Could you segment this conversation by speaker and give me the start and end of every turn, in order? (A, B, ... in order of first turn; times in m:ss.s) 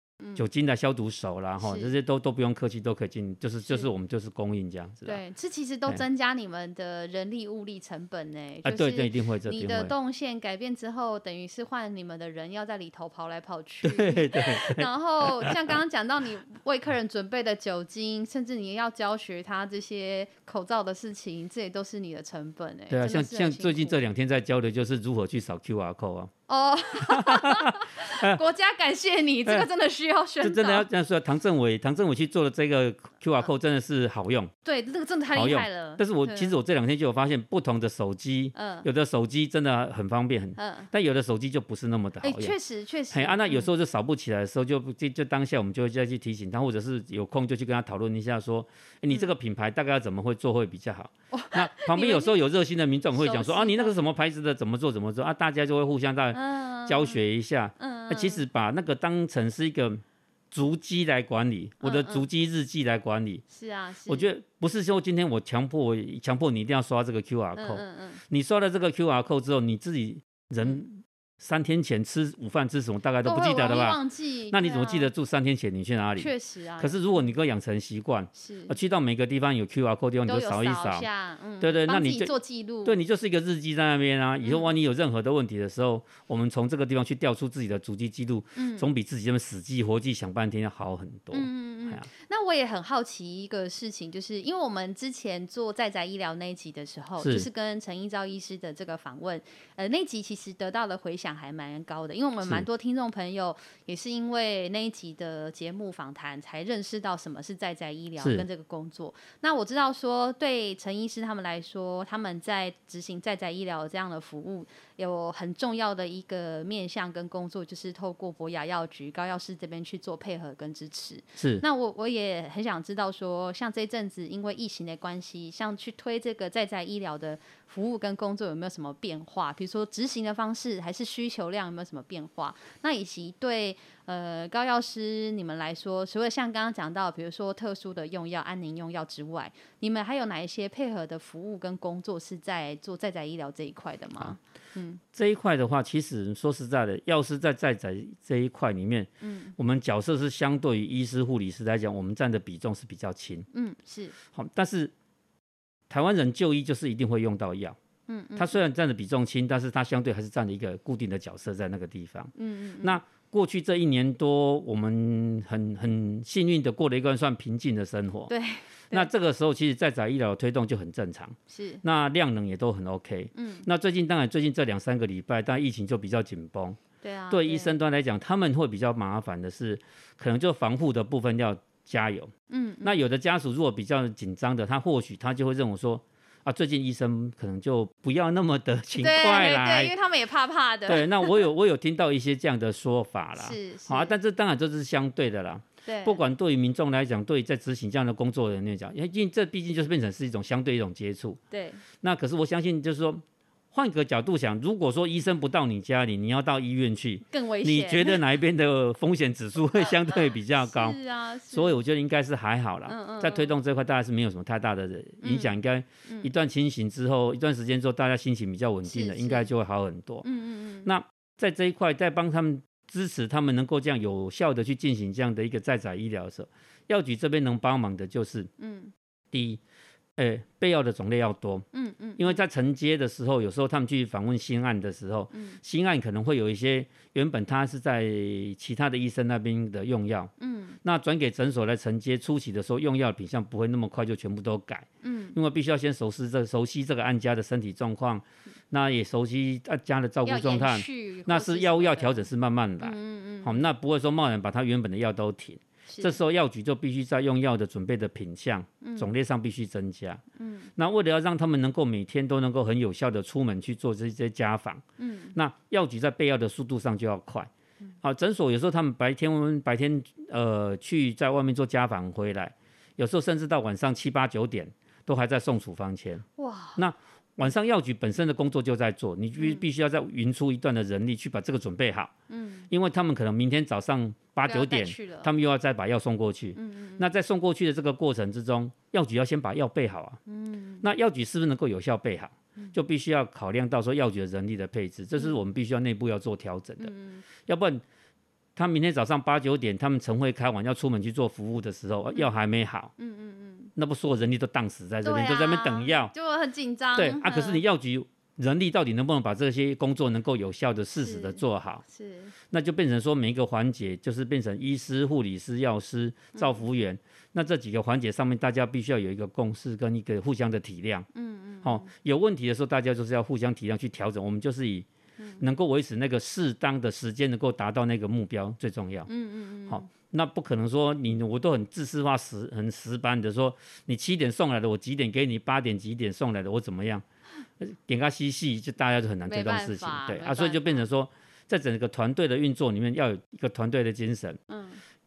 0:00.4-0:05.2 A
0:01.6-0:01.9 B
0:03.7-0:03.9 B
0:05.0-0:24.0 B
0:08.6-0:09.9 A
0:13.8-0:15.8 A
0:22.9-0:26.3 A
0:26.5-0:30.9 B
0:27.0-0:28.4 A
0:30.4-0:34.5 A
0:34.6-0:36.6 B
0:35.3-0:42.6 A
0:38.6-0:38.9 B
0:40.6-0:40.9 B
0:42.2-0:43.7 B
0:43.1-1:03.4 A
0:51.3-0:52.4 B
0:53.2-0:54.0 B
0:56.3-0:57.2 B
0:57.8-0:58.4 B
1:01.8-1:02.3 B
1:03.5-1:04.3 B
1:04.1-1:14.0 A
1:07.6-1:08.2 B
1:13.2-1:15.1 B
1:14.5-1:21.1 A
1:16.2-1:17.2 B
1:18.4-1:18.8 B
1:20.3-1:23.0 B
1:21.6-1:22.3 A
1:22.8-1:32.1 A
1:24.4-1:24.7 B
1:28.6-1:28.9 B
1:31.3-2:25.0 B
1:37.2-1:37.5 A
1:48.2-1:48.5 A
2:01.4-2:01.6 A
2:25.1-2:33.5 A
2:29.2-2:29.6 B
2:33.5-2:34.2 B
2:34.3-2:34.9 A
2:35.9-2:37.8 A
2:38.1-2:38.6 B
2:38.4-2:48.3 A
2:42.4-2:43.0 B
2:48.3-2:49.1 B
2:48.9-2:56.8 A
2:51.5-2:51.8 B
2:53.4-2:53.7 B
2:57.0-2:57.8 B
2:57.3-3:02.3 A
3:02.5-3:03.0 B
3:02.8-3:09.9 A
3:09.0-3:11.5 B
3:10.9-3:21.4 A
3:13.4-3:14.2 B
3:15.9-3:16.2 B
3:21.5-3:21.8 B
3:22.0-3:31.0 A
3:27.3-3:28.2 B
3:30.6-3:31.8 B
3:31.5-3:40.2 A
3:32.9-3:33.6 B
3:35.2-3:35.6 B
3:38.8-3:39.5 B
3:40.2-3:40.9 B
3:40.8-3:48.5 A
3:48.6-3:48.9 B
3:49.3-3:49.6 A
3:50.2-3:51.6 A
3:51.7-3:52.4 B
3:52.2-4:00.3 A
3:55.3-3:55.6 B
4:00.4-4:00.8 B
4:00.8-4:20.2 A
4:05.0-4:05.4 B
4:10.2-4:12.3 B
4:12.8-4:13.6 B
4:15.9-4:16.2 B
4:18.8-4:19.1 B
4:20.4-4:20.7 B
4:20.8-4:24.8 A
4:25.0-4:25.4 B
4:25.4-4:27.5 A
4:28.0-4:36.2 A
4:36.4-4:36.8 B
4:36.8-4:42.1 A
4:39.4-4:39.6 B
4:42.3-4:42.7 B
4:42.7-4:50.2 A
4:44.5-4:45.3 B
4:46.6-4:47.1 B
4:50.3-4:50.9 B
4:50.8-4:56.9 A
4:56.8-4:57.2 B
4:57.5-4:57.8 A
4:58.6-5:02.9 A
5:03.0-5:03.7 B
5:03.8-5:06.1 A
5:05.0-5:07.6 B
5:07.0-5:11.8 A
5:11.0-5:12.4 B
5:12.5-5:21.1 A
5:16.4-5:16.6 B
5:21.1-5:21.9 B
5:21.6-5:24.9 A
5:25.2-5:25.4 B
5:25.4-5:29.1 A
5:29.1-5:29.9 B
5:29.7-5:37.0 A
5:37.6-5:44.4 A
5:39.3-5:40.9 B
5:44.5-5:44.8 B